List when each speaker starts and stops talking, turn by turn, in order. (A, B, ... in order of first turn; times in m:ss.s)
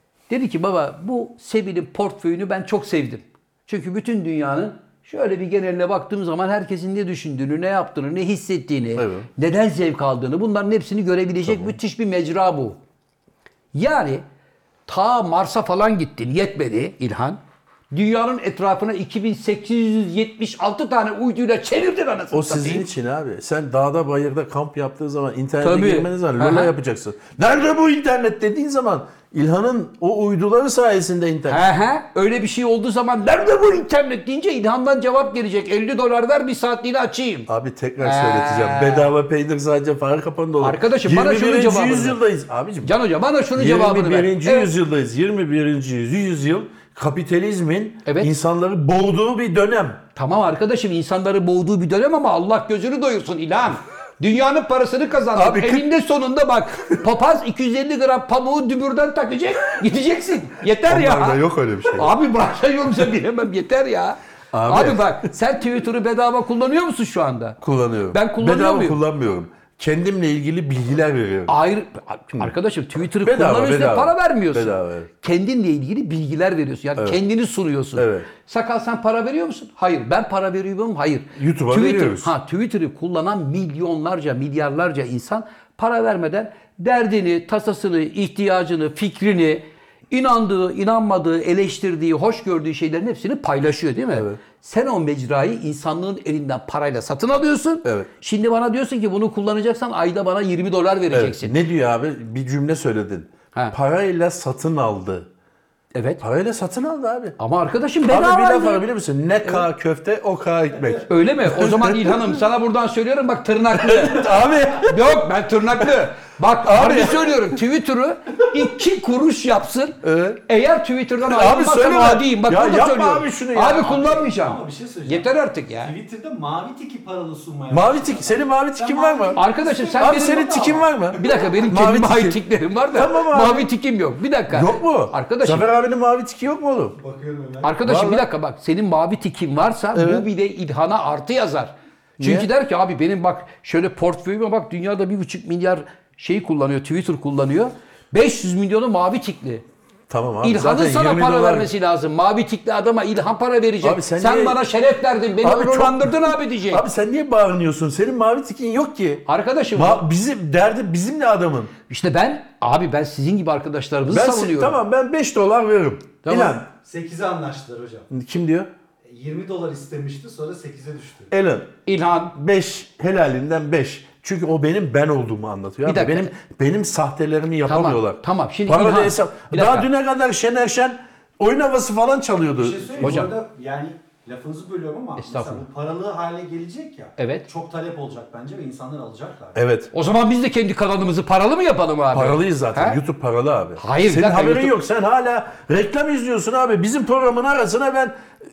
0:00.3-0:12.8 A
0:09.0-0:09.3 B
0:11.5-0:11.7 B
0:13.7-0:14.2 A
0:14.9-0:17.4 A
0:17.9-0:22.8 A
0:22.3-0:31.6 B
0:25.6-0:26.7 A
0:31.5-0:37.5 A
0:37.5-0:42.9 B
0:38.0-0:39.1 A
0:40.6-0:42.2 A
0:42.8-0:44.7 A
0:43.5-0:50.0 B
0:48.0-0:48.3 A
0:50.1-1:07.6 A
0:55.3-0:55.9 B
1:00.9-1:02.1 B
1:04.5-1:05.3 B
1:07.6-1:11.5 B
1:08.1-1:09.0 A
1:11.5-1:41.6 A
1:13.2-1:15.1 B
1:18.0-1:18.3 B
1:21.4-1:22.3 B
1:34.1-1:34.4 B
1:41.1-1:45.3 B
1:45.9-1:46.2 A
1:46.2-1:47.4 B
1:47.4-1:48.8 A
1:48.1-1:52.3 B
1:51.1-2:05.9 A
1:53.7-1:55.1 B
1:56.6-1:57.5 B
2:00.0-2:00.4 B
2:01.2-2:04.2 B
2:03.8-2:11.4 C
2:07.7-2:09.4 B
2:09.4-2:15.6 A
2:09.9-2:12.4 B
2:12.9-2:13.7 B
2:14.5-2:17.0 B
2:17.0-2:17.8 C
2:17.6-2:29.6 A
2:17.8-2:18.2 B
2:19.9-2:20.3 B
2:22.2-2:22.5 B
2:30.1-2:31.7 B
2:30.4-2:36.8 A
2:33.8-2:34.6 B
2:35.4-2:41.7 B
2:39.2-2:40.1 A
2:41.9-2:44.8 A
2:44.1-2:46.7 B
2:46.2-2:46.6 A
2:46.7-2:48.1 C
2:48.1-2:48.7 B
2:49.1-2:51.3 C
2:51.3-2:51.7 B
2:51.8-2:52.3 A
2:52.3-3:03.3 B
2:55.8-2:56.3 A
2:57.6-2:59.9 A
3:02.6-3:09.6 C
3:03.0-3:03.3 A
3:05.2-3:05.6 A
3:07.2-3:07.5 A
3:09.5-3:09.9 B
3:09.9-3:13.0 A
3:12.1-3:18.1 B
3:13.8-3:14.7 A